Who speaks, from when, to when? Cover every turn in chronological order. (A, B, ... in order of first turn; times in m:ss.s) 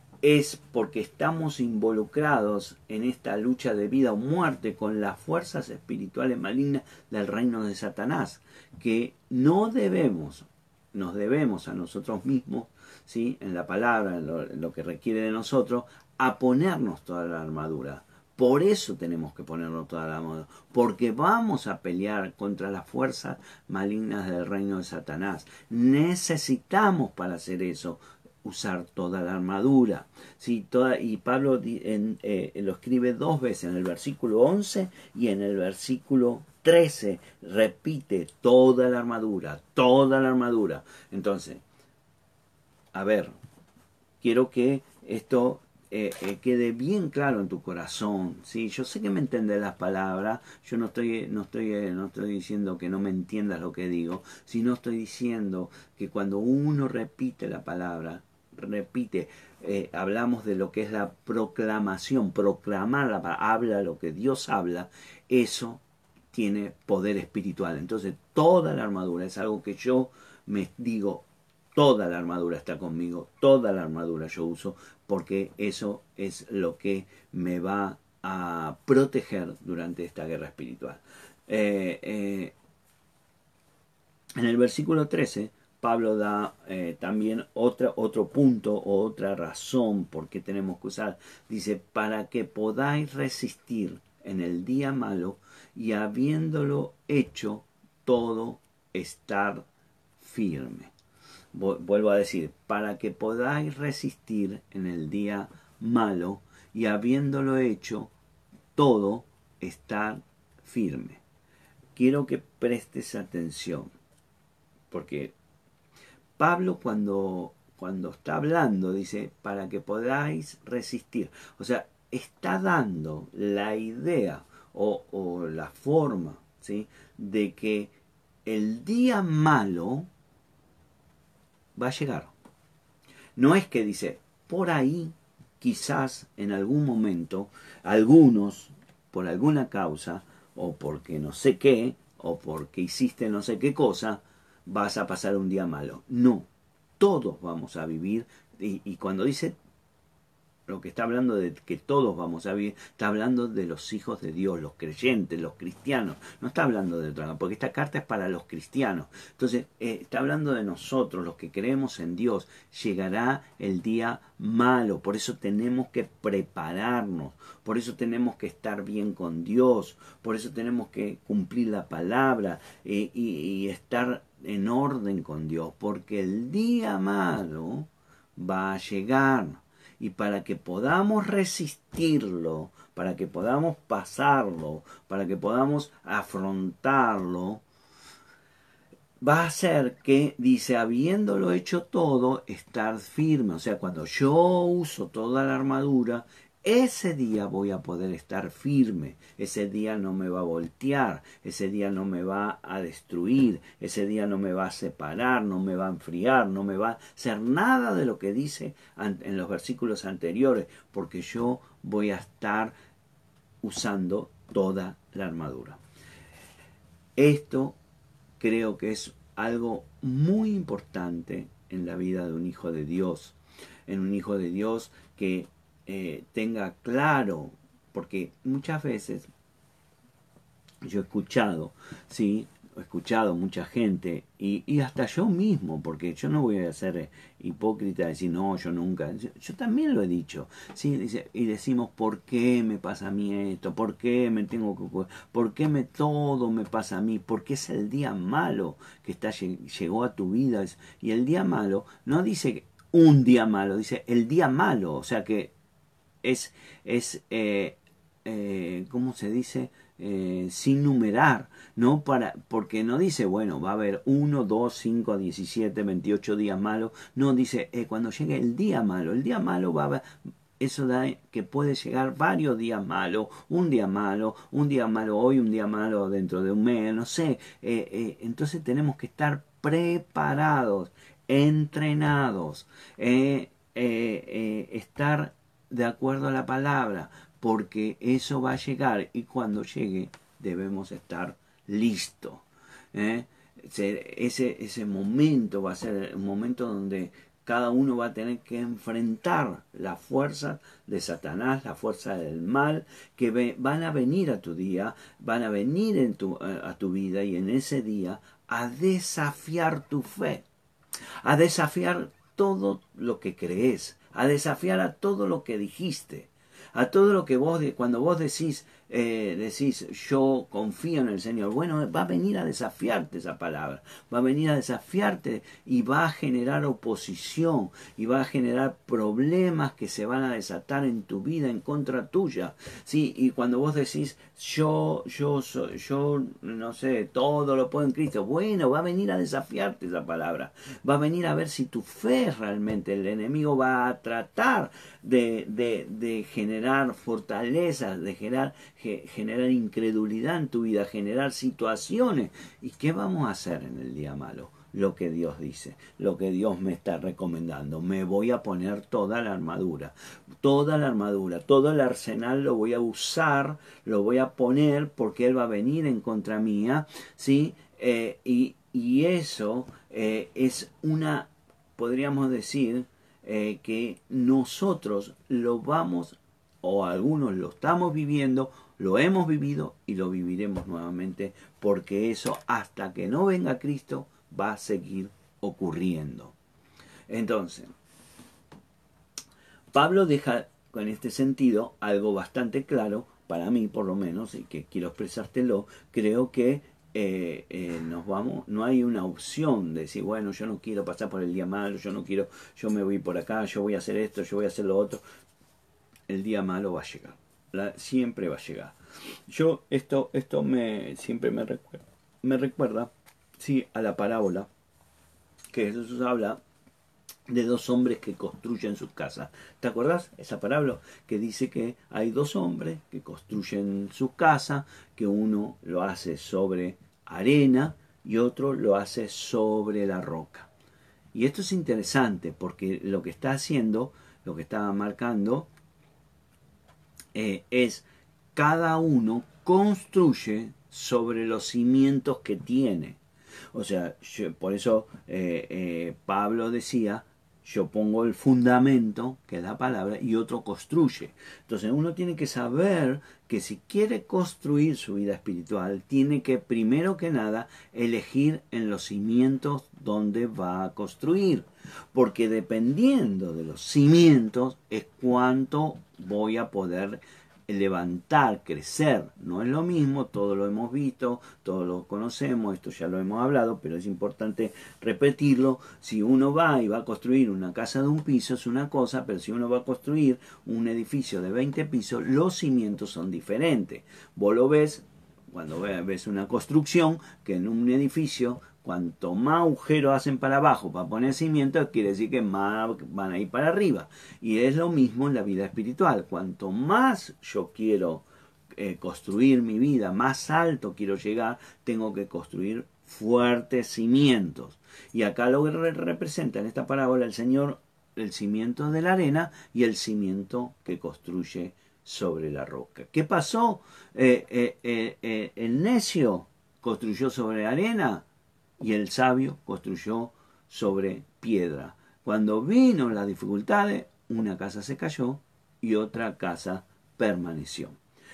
0:00.2-0:41.6 A
0:42.9-0:43.3 A
0:44.2-1:22.6 A
1:24.4-1:39.6 A
1:40.2-1:40.9 A
1:41.5-1:48.1 A
1:48.8-1:51.2 A
1:51.9-1:53.9 A
1:54.9-1:55.4 A
1:56.4-2:07.9 A
2:08.4-2:10.1 A
2:11.8-2:12.3 A
2:13.4-2:26.5 A
2:27.0-2:29.6 A
2:30.7-3:07.6 A
3:09.2-3:32.8 A
3:33.6-3:35.8 A
3:37.2-3:37.8 A
3:38.4-3:49.3 A
3:50.8-4:15.5 A
4:16.2-5:10.4 A
5:11.2-6:26.4 A
6:27.1-6:27.7 A
6:29.7-6:45.0 A
6:46.1-6:48.7 A
6:49.3-6:54.5 A
6:55.5-6:56.4 A
6:57.3-7:10.5 A
7:11.1-7:15.5 A
7:17.1-7:23.0 A
7:23.5-8:38.0 A
8:38.6-8:47.8 A